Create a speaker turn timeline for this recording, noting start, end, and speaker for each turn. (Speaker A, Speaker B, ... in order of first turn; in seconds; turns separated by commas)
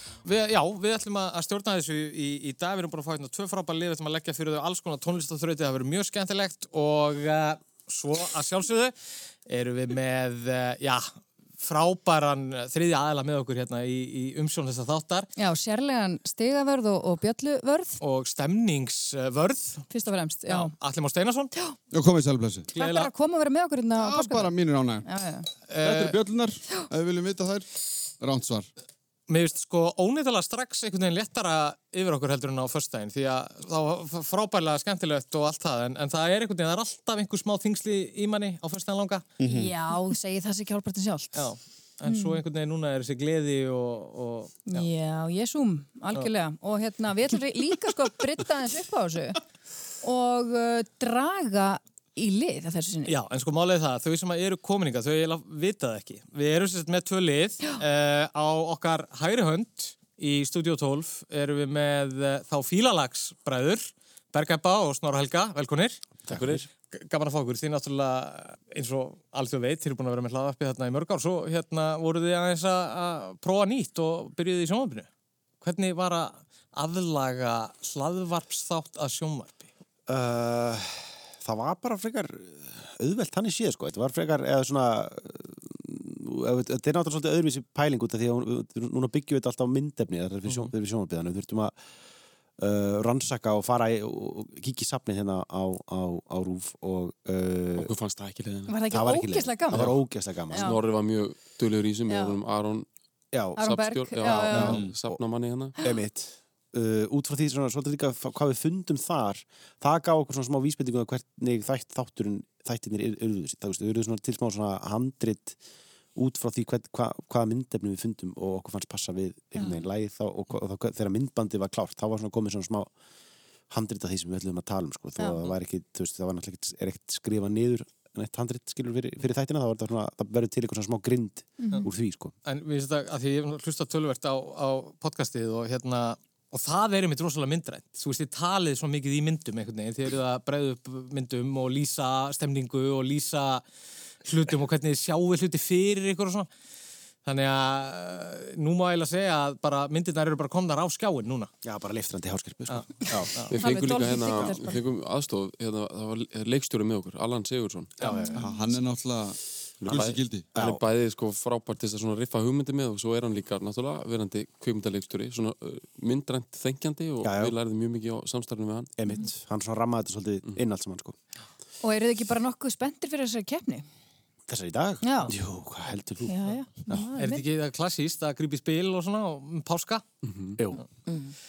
Speaker A: 0.2-8.9, Speaker A: 9.5-15.3, Speaker B: 15.4-18.0, Speaker A: 18.0-19.9, Speaker B: 19.9-20.7, Speaker A: 20.5-21.5, Speaker C: 21.9-22.7, Speaker B: 22.7-25.5, Speaker A: 22.7-23.1, Speaker C: 23.9-25.1, Speaker A: 25.7-26.1, Speaker C: 25.8-27.7, Speaker C: 28.2-28.7, Speaker A: 29.3-39.2, Speaker C: 39.4-39.7, Speaker B: 39.5-41.5, Speaker A: 41.3-44.9, Speaker B: 42.1-42.4, Speaker B: 44.7-49.4, Speaker B: 50.0-53.1, Speaker A: 53.1-66.0, Speaker D: 66.3-66.7, Speaker E: 66.3-66.7, Speaker A: 66.9-75.1, Speaker A: 75.6-79.7, Speaker D: 80.1-91.8, Speaker D: 92.6-97.9, Speaker E: 97.8-98.8, Speaker B: 98.7-99.8, Speaker D: 98.9-100.8, Speaker E: 99.7-100.0, Speaker B: 100.5-100.8, Speaker E: 100.5-102.9, Speaker D: 103.3-103.6, Speaker E: 103.5-105.7, Speaker B: 103.6-104.8, Speaker D: 104.2-115.6, Speaker C: 104.7-105.0, Speaker D: 116.1-122.9, Speaker D: 123.7-132.3, Speaker B: 131.6-131.9, Speaker A: 132.4-143.6, Speaker A: 144.2-146.5, Speaker A: 147.2-151.5, Speaker D: 151.6-153.3, Speaker E: 153.5-158.2, Speaker B: 153.6-154.8, Speaker A: 158.0-158.3, Speaker B: 158.2-158.4, Speaker C: 158.3-160.5, Speaker D: 159.8-160.8, Speaker E: 159.9-168.9, Speaker D: 167.2-167.5, Speaker D: 169.0-171.1, Speaker B: 171.8-173.8, Speaker D: 174.5-177.1, Speaker B: 175.0-175.3, Speaker B: 176.2-177.4, Speaker A: 177.2-180.0, Speaker E: 180.2-180.6